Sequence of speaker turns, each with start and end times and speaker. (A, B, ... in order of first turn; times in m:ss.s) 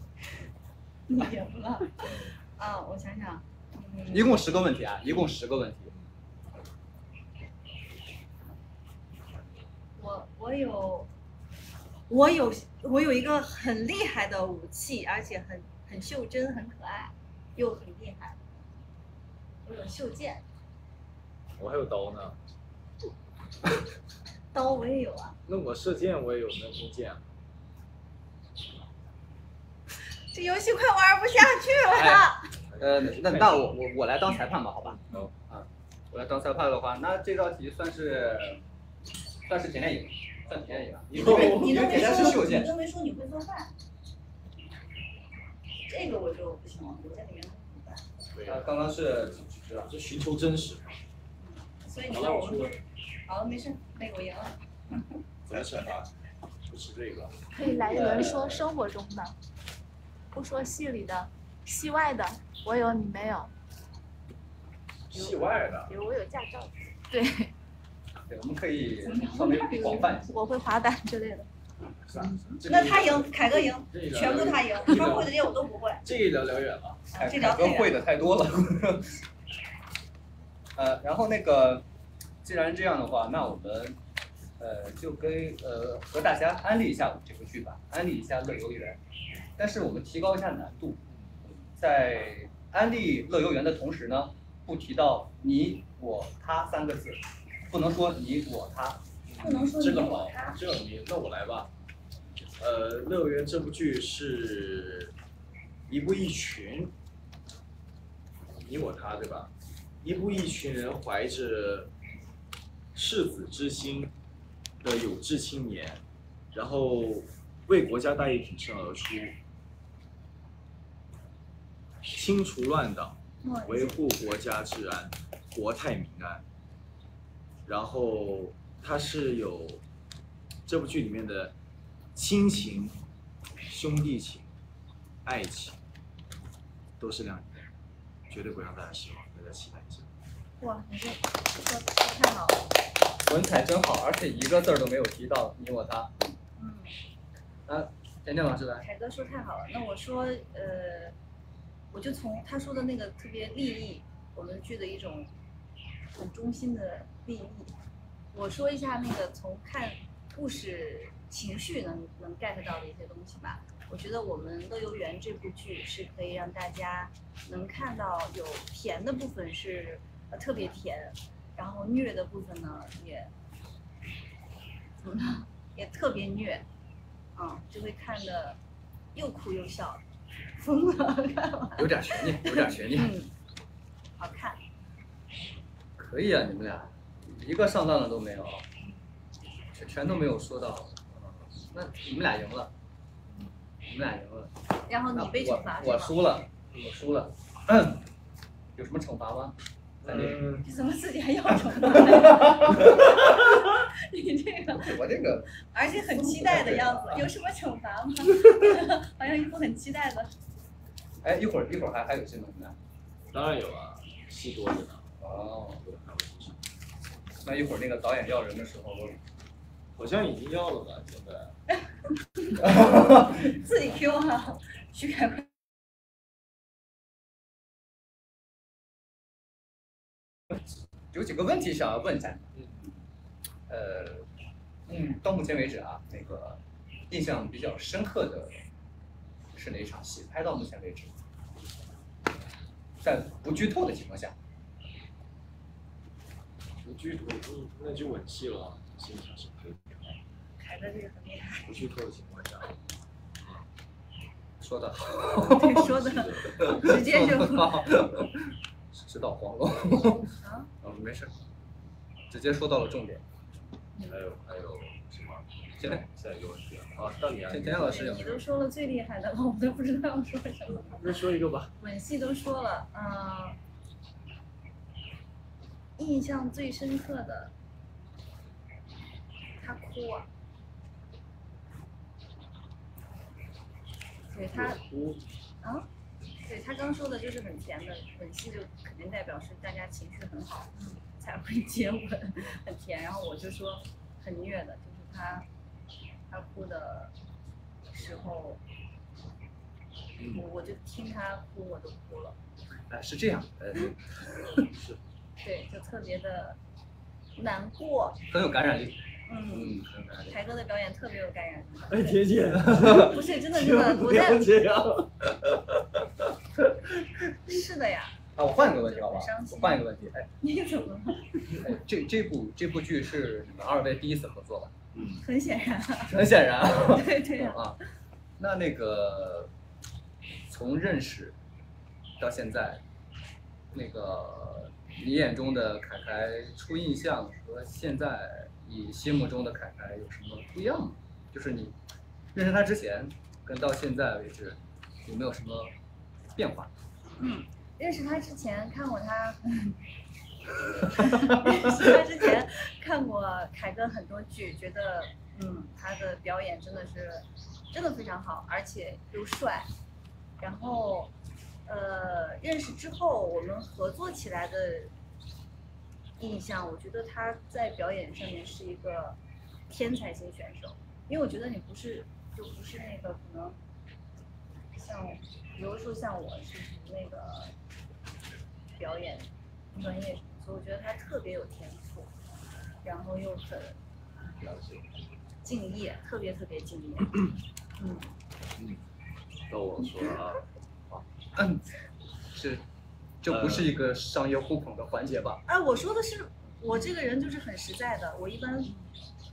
0:01.1-0:04.4 A
0:04.1-0:05.9 B
0:10.0-0:11.1 A
0:12.1-0:18.4 A
0:19.6-0:20.4 A
0:21.6-0:22.4 C
0:24.5-0:25.4 A
0:25.5-0:27.3 C
0:30.2-0:32.5 A
0:31.9-0:38.6 B
0:32.7-0:33.7 C
0:34.9-0:35.3 C
0:39.5-0:42.7 B
0:41.0-0:42.4 C
0:41.2-0:43.7 A
0:45.9-0:48.0 A
0:48.3-0:51.0 C
0:48.5-0:49.9 B
0:51.4-0:54.6 A
0:52.1-0:52.7 C
0:55.4-0:56.1 C
0:56.7-0:57.4 C
0:57.5-0:59.4 D
0:57.9-0:58.7 B
1:00.3-1:03.5 D
1:05.1-1:05.9 C
1:05.9-1:07.5 D
1:08.3-1:10.3 B
1:09.1-1:10.2 A
1:09.8-1:11.5 D
1:12.0-1:15.4 C
1:12.6-1:16.0 A
1:12.6-1:13.1 B
1:16.0-1:17.0 C
1:17.1-1:18.0 A
1:17.1-1:19.2 B
1:20.8-1:21.8 B
1:22.4-1:24.0 B
1:24.6-1:29.0 B
1:29.6-1:39.0 B
1:39.2-1:41.7 C
1:39.4-1:40.6 A
1:42.6-1:45.1 C
1:45.9-1:46.9 C
1:48.6-1:51.9 C
1:52.9-1:54.1 C
1:54.8-1:59.4 C
2:02.0-2:06.4 C
2:03.4-2:04.0 A
2:07.7-2:09.8 C
2:10.7-2:11.5 C
2:12.2-2:13.0 C
2:13.7-2:14.5 C
2:15.2-2:15.8 C
2:17.0-2:17.6 C
2:18.3-2:20.1 C
2:20.6-2:22.6 A
2:23.2-2:26.4 B
2:26.6-2:26.9 A
2:27.7-2:28.9 B
2:28.8-2:31.2 A
2:31.9-2:35.3 A
2:36.1-2:37.7 A
2:38.3-2:53.3 A
2:55.0-2:56.7 A
2:57.4-2:58.6 A
2:59.1-3:00.0 A
3:00.6-3:03.3 A
3:01.8-3:03.2 B
3:04.2-3:04.6 A
3:06.0-3:08.6 B
3:09.7-3:11.2 B
3:11.7-3:12.7 B
3:13.3-3:13.6 C
3:13.9-3:14.5 B
3:14.9-3:16.1 A
3:15.1-3:18.0 B
3:18.8-3:20.5 B
3:20.0-3:20.7 C
3:20.6-3:25.0 A
3:21.9-3:23.3 B
3:24.8-3:25.5 B
3:25.6-3:30.3 A
3:26.3-3:27.3 C
3:31.2-3:32.8 B
3:33.3-3:35.1 C
3:35.2-3:35.8 B
3:35.8-3:36.6 C
3:37.4-3:39.2 B
3:40.0-3:41.6 C
3:42.4-3:45.5 A
3:42.7-3:43.2 B
3:51.1-3:52.5 B
3:53.7-3:54.2 B
3:54.9-3:58.6 B
3:59.6-4:01.2 B
4:03.0-4:04.3 B
4:06.8-4:10.2 C
4:10.6-4:11.7 A
4:11.6-4:12.8 C
4:14.6-4:15.9 B
4:15.2-4:17.9 A
4:15.7-4:16.8 C
4:16.5-4:20.3 B
4:20.2-4:20.7 A
4:20.8-4:21.3 B
4:22.3-4:23.2 B
4:24.1-4:28.2 C
4:25.8-4:26.0 B
4:27.5-4:28.4 B
4:27.8-4:31.1 A
4:30.9-4:31.7 C
4:31.8-4:33.6 A
4:36.0-4:37.5 A
4:39.6-4:40.3 A
4:44.3-4:44.8 A
4:44.5-4:45.2 C
4:45.6-4:45.9 A
4:46.5-4:55.5 A
4:50.8-4:51.0 C
4:56.3-4:57.1 A
4:57.9-4:58.6 A
5:00.2-5:00.4 C
5:00.3-5:02.4 A
5:02.9-5:04.0 B
5:04.7-5:05.0 C
5:05.4-5:06.6 A
5:07.4-5:08.2 A
5:08.3-5:10.4 B
5:09.3-5:12.2 A
5:11.9-5:16.3 C
5:12.7-5:14.5 A
5:17.5-5:19.9 A
5:18.4-5:20.3 B
5:20.4-5:21.6 A
5:21.6-5:24.7 B
5:24.9-5:25.2 C
5:25.2-5:27.6 A
5:26.1-5:27.8 B
5:28.4-5:29.5 B
5:30.5-5:31.4 B
5:32.2-5:32.8 B
5:33.7-5:41.8 B
5:42.3-5:45.7 B
5:46.4-5:46.7 B
5:47.2-5:49.8 A
5:50.8-5:59.7 A
6:00.4-6:01.1 A
6:01.7-6:04.9 A
6:06.2-6:09.2 A
6:09.7-6:13.6 A
6:14.7-6:17.5 A
6:18.8-6:22.1 A
6:22.8-6:23.8 A
6:24.3-6:24.9 C
6:25.4-6:28.1 A
6:28.6-6:28.8 C
6:29.5-6:30.4 C
6:30.9-6:31.6 B
6:32.3-6:32.6 B
6:33.2-6:35.4 B
6:33.3-6:33.7 C
6:35.5-6:38.8 A